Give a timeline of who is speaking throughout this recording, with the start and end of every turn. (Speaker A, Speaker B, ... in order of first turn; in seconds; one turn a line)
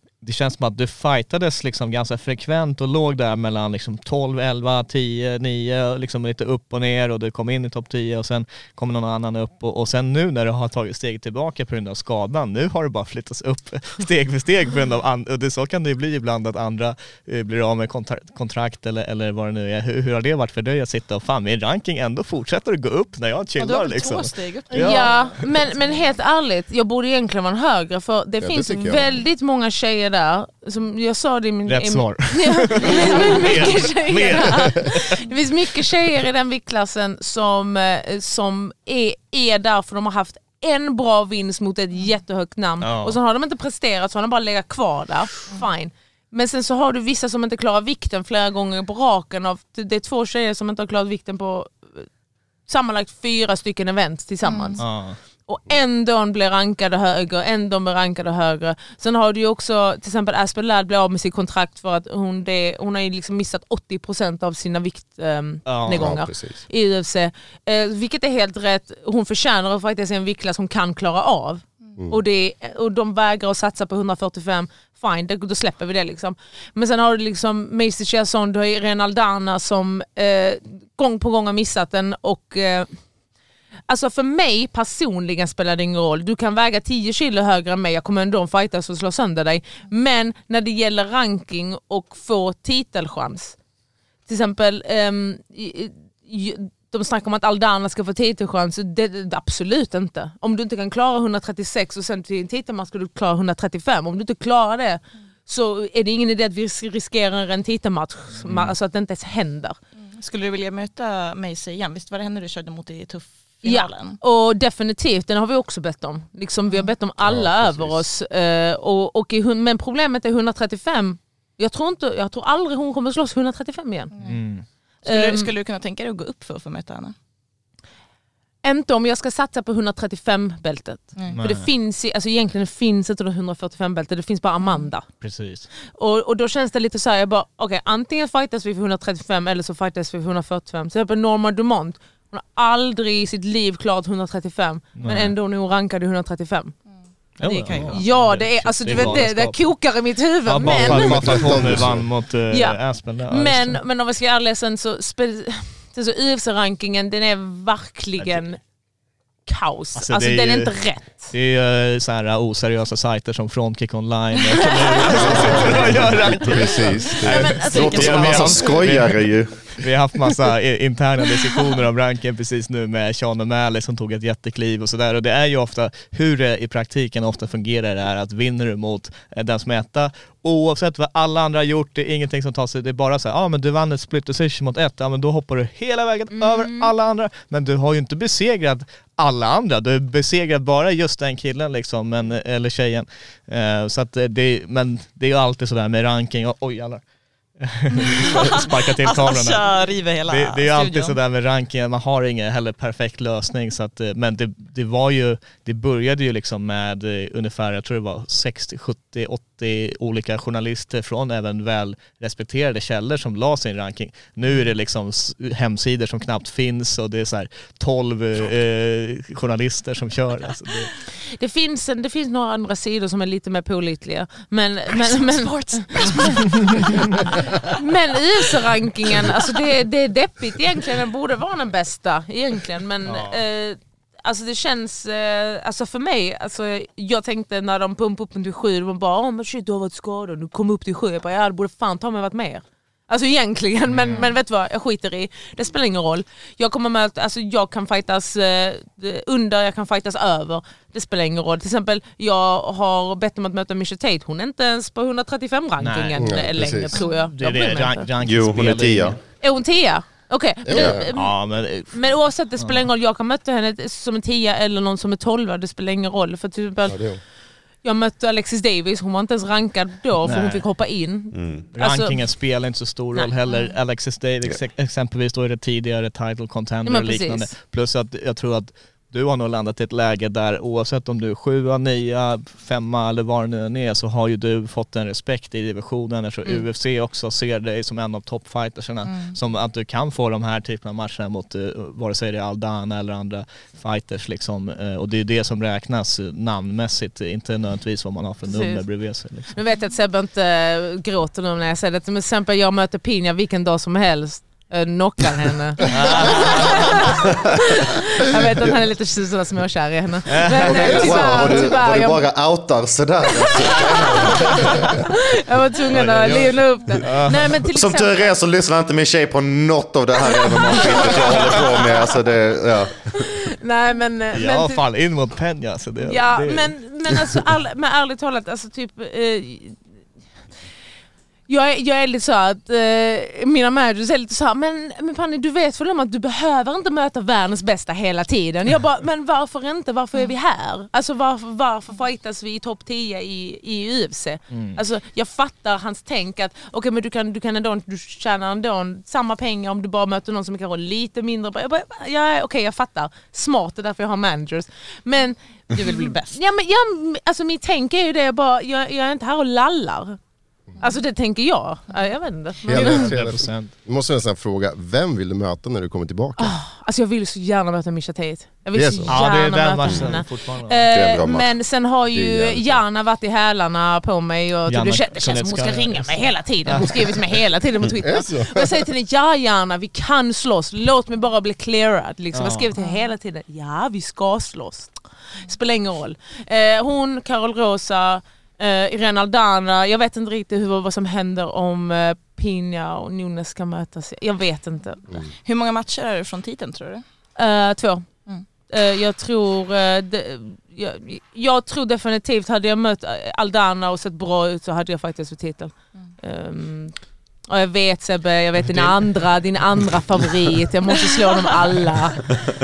Speaker A: 0.2-25.5
Speaker B: 23.6-25.4
Speaker C: 24.7-52.1
Speaker D: 28.4-29.1
Speaker A: 31.7-35.3
Speaker A: 42.8-43.2
Speaker C: 52.7-54.9
Speaker B: 54.4-54.8
Speaker A: 54.8-55.2
Speaker C: 55.5-83.0
Speaker A: 65.7-66.2
Speaker D: 66.0-66.6
Speaker C: 83.9-93.6
Speaker C: 94.3-109.8
Speaker A: 108.4-108.8
Speaker B: 110.1-114.2
Speaker C: 113.6-124.1
Speaker D: 117.2-117.9
Speaker A: 124.2-124.7
Speaker B: 125.0-127.2
Speaker C: 125.1-125.5
Speaker C: 128.6-135.1
Speaker A: 131.3-131.7
Speaker A: 135.2-135.7
Speaker C: 135.9-146.8
Speaker A: 145.0-145.3
Speaker A: 147.4-149.8
Speaker C: 147.4-151.8
Speaker B: 147.6-148.0
Speaker A: 150.5-153.8
Speaker D: 150.6-152.1
Speaker C: 152.5-158.6
Speaker C: 159.5-161.3
Speaker A: 160.0-160.8
Speaker A: 161.3-197.0
Speaker C: 164.6-165.1
Speaker D: 165.0-167.6
Speaker C: 167.2-168.8
Speaker B: 167.6-168.6
Speaker E: 167.7-169.8
Speaker C: 186.3-186.9
Speaker A: 197.6-220.9
Speaker B: 198.0-201.2
Speaker C: 221.4-258.1
Speaker B: 224.9-227.8
Speaker A: 233.1-233.4
Speaker A: 243.9-244.2
Speaker A: 255.8-259.2
Speaker D: 256.2-256.9
Speaker E: 258.2-259.2
Speaker C: 259.4-267.1
Speaker D: 260.7-261.1
Speaker A: 260.7-262.9
Speaker D: 266.9-267.2
Speaker C: 267.8-272.2
Speaker A: 270.2-270.7
Speaker E: 271.3-271.7
Speaker A: 271.7-299.6
Speaker C: 273.1-273.6
Speaker C: 276.9-277.6
Speaker B: 289.1-289.4
Speaker C: 298.5-312.3
Speaker A: 305.8-307.2
Speaker A: 310.3-311.5
Speaker E: 310.6-314.9
Speaker C: 313.4-318.3
Speaker A: 315.9-317.7
Speaker E: 317.7-323.4
Speaker C: 320.4-321.9
Speaker C: 323.1-324.8
Speaker A: 324.3-327.4
Speaker C: 326.1-329.9
Speaker C: 331.5-360.2
Speaker A: 344.5-344.8
Speaker B: 355.7-356.4
Speaker C: 360.8-363.1
Speaker D: 362.7-366.6
Speaker A: 362.7-363.7
Speaker C: 366.4-395.2
Speaker D: 368.8-369.2
Speaker A: 369.1-370.9
Speaker E: 369.9-370.2
Speaker E: 370.9-371.5
Speaker D: 372.1-372.8
Speaker A: 374.7-377.4
Speaker D: 377.9-378.9
Speaker A: 382.3-382.7
Speaker B: 395.4-397.0
Speaker C: 397.4-398.1
Speaker C: 398.7-407.0
Speaker C: 407.5-412.3
Speaker A: 408.6-409.8